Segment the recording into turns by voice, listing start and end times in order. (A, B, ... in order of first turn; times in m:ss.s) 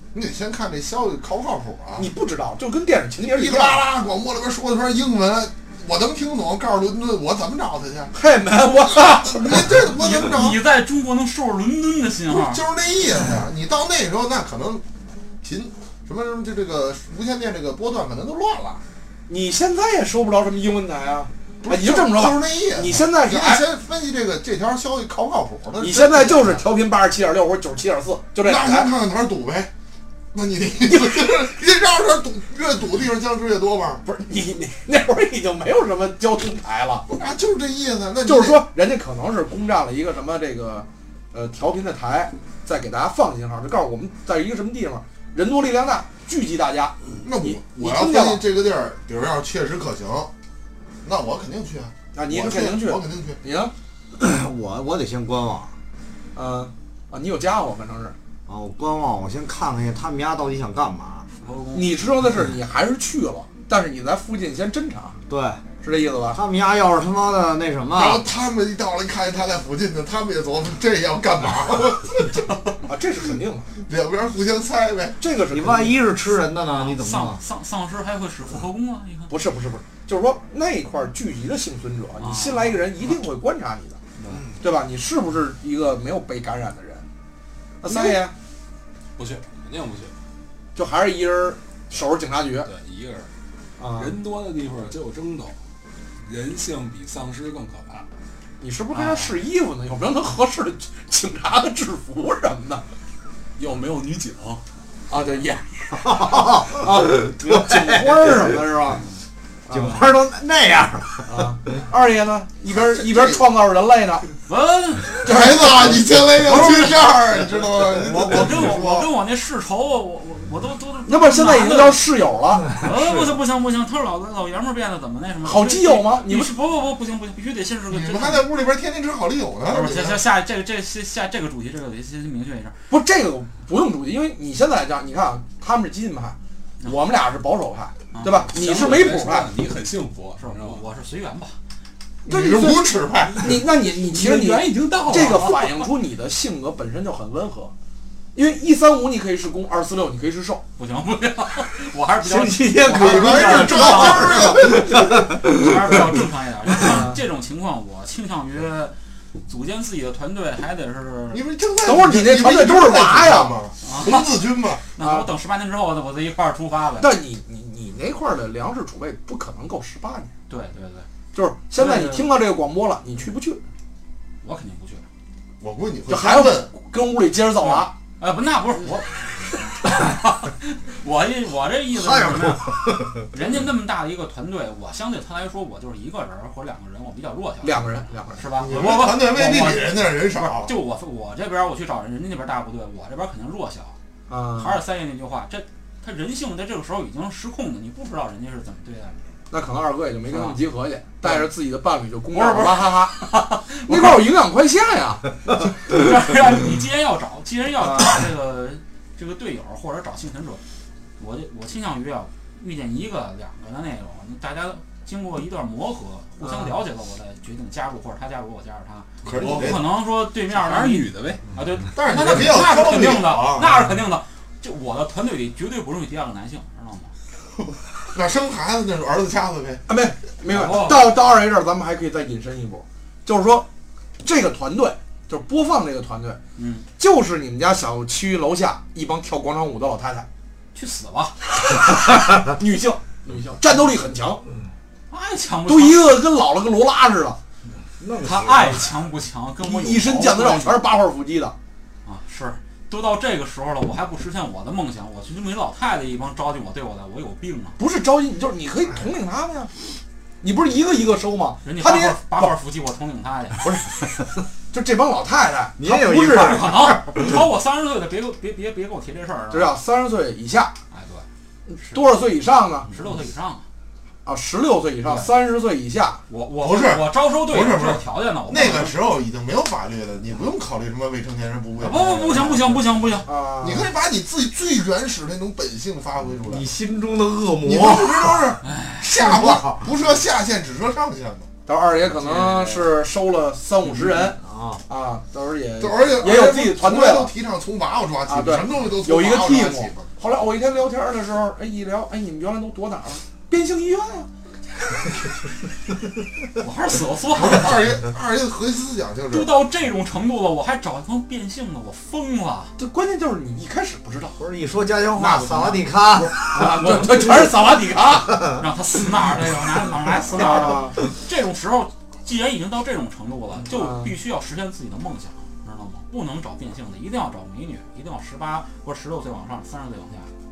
0:00.1-0:02.1 A
0:02.0-0:03.8 B
0:03.2-0:08.1 A
0:08.1-0:09.8 B
0:08.9-0:10.6 A
0:09.9-0:12.6 C
0:12.3-0:14.8 A
0:15.4-0:18.8 A
0:19.3-0:23.6 B
0:21.6-0:26.6 A
0:25.8-0:28.9 B
0:28.4-0:29.7 A
0:30.3-0:34.0 A
0:30.9-0:31.2 B
0:34.0-0:37.1 B
0:37.1-0:38.6 A
0:38.2-0:48.4 B
0:47.2-0:50.3 A
0:51.0-0:53.4 A
0:52.1-0:53.7 B
0:54.1-0:55.7 D
0:56.3-0:58.2 B
0:58.5-1:01.3 D
1:01.4-1:02.1 C
1:01.7-1:05.2 B
1:05.3-1:05.6 D
1:05.8-1:06.4 B
1:06.3-1:08.2 D
1:07.9-1:12.6 A
1:12.8-1:13.7 B
1:13.8-1:15.2 A
1:15.2-1:16.0 B
1:15.5-1:17.4 D
1:16.7-1:19.3 C
1:19.3-1:24.0 B
1:22.2-1:23.0 C
1:24.2-1:24.4 C
1:24.6-1:27.0 B
1:27.8-1:28.3 B
1:29.2-1:30.1 E
1:30.7-1:32.7 B
1:32.6-1:33.3 E
1:33.8-1:34.2 B
1:34.0-1:35.5 E
1:36.2-1:38.0 E
1:38.6-1:42.8 B
1:38.9-1:39.4 C
1:43.6-1:44.6 E
1:45.1-1:49.0 B
1:46.2-1:48.5 D
1:49.7-1:50.1 B
1:49.7-1:51.5 D
1:51.3-1:54.2 B
1:52.7-1:53.4 A
1:54.5-1:55.4 C
1:55.2-1:56.0 B
1:55.2-1:59.1 A
1:56.4-1:57.2 C
1:58.1-2:02.1 C
2:01.1-2:02.6 B
2:02.7-2:08.5 C
2:02.8-2:03.3 D
2:05.4-2:06.5 B
2:07.9-2:10.3 A
2:09.7-2:12.8 C
2:12.9-2:19.5 B
2:18.1-2:18.5 C
2:18.5-2:20.8 E
2:20.4-2:21.6 C
2:22.2-2:27.7 B
2:22.3-2:23.6 A
2:24.0-2:25.6 E
2:25.1-2:25.8 C
2:28.3-2:30.6 B
2:30.8-2:38.9 C
2:32.2-2:37.0 D
2:32.9-2:34.9 A
2:34.2-2:34.4 B
2:36.9-2:37.2 B
2:39.5-2:41.4 C
2:41.3-2:44.8 A
2:41.8-2:43.6 B
2:43.8-2:47.1 C
2:45.0-2:45.3 B
2:47.0-2:50.3 B
2:50.5-2:51.1 C
2:51.3-2:53.6 B
2:51.7-2:52.3 C
2:54.4-2:55.0 C
2:55.6-2:56.7 A
2:56.1-2:57.9 B
2:57.6-3:13.9 C
3:01.9-3:03.3 D
3:07.6-3:08.4 B
3:08.6-3:10.7 A
3:14.3-3:14.8 B
3:14.6-3:19.3 C
3:19.5-3:23.2 B
3:20.3-3:20.6 C
3:22.3-3:24.3 C
3:23.9-3:25.3 B
3:25.7-3:30.6 C
3:27.8-3:28.2 B
3:31.2-3:47.1 C
3:36.4-3:36.7 B
3:39.2-3:39.9 A
3:40.5-3:41.4 E
3:41.9-3:43.8 A
3:48.1-3:49.8 A
3:49.9-3:53.7 B
3:50.4-3:51.1 C
3:54.2-3:56.4 B
3:56.6-3:56.8 C
3:57.0-4:00.3 B
4:00.7-4:01.4 C
4:02.4-4:04.4 B
4:05.1-4:06.2 C
4:05.7-4:07.4 B
4:08.0-4:08.9 D
4:08.2-4:10.8 C
4:09.6-4:11.5 B
4:12.0-4:17.8 C
4:17.8-4:19.7 B
4:20.4-4:22.5 B
4:21.6-4:23.9 C
4:23.6-4:23.9 B
4:24.7-4:26.7 B
4:25.8-4:27.4 D
4:26.4-4:29.7 C
4:29.5-4:30.7 B
4:30.9-4:31.2 C
4:31.7-4:32.9 B
4:32.9-4:33.6 C
4:34.2-4:36.2 B
4:36.3-4:39.0 C
4:36.6-4:42.8 A
4:41.8-4:43.3 C
4:43.2-4:43.9 B
4:43.6-4:46.6 A
4:46.4-4:48.6 D
4:47.6-4:51.5 A
4:48.6-4:49.2 C
4:49.1-4:49.9 D
4:51.6-4:57.3 B
4:54.2-4:54.8 D
4:55.8-5:00.1 A
4:58.3-5:04.3 B
5:06.5-5:08.0 C
5:07.3-5:09.6 A
5:09.3-5:12.7 C
5:12.8-5:14.3 B
5:14.4-5:17.7 D
5:15.2-5:15.8 C
5:16.3-5:18.4 B
5:18.3-5:18.6 D
5:18.5-5:30.3 C
5:20.3-5:21.0 B
5:23.7-5:24.1 B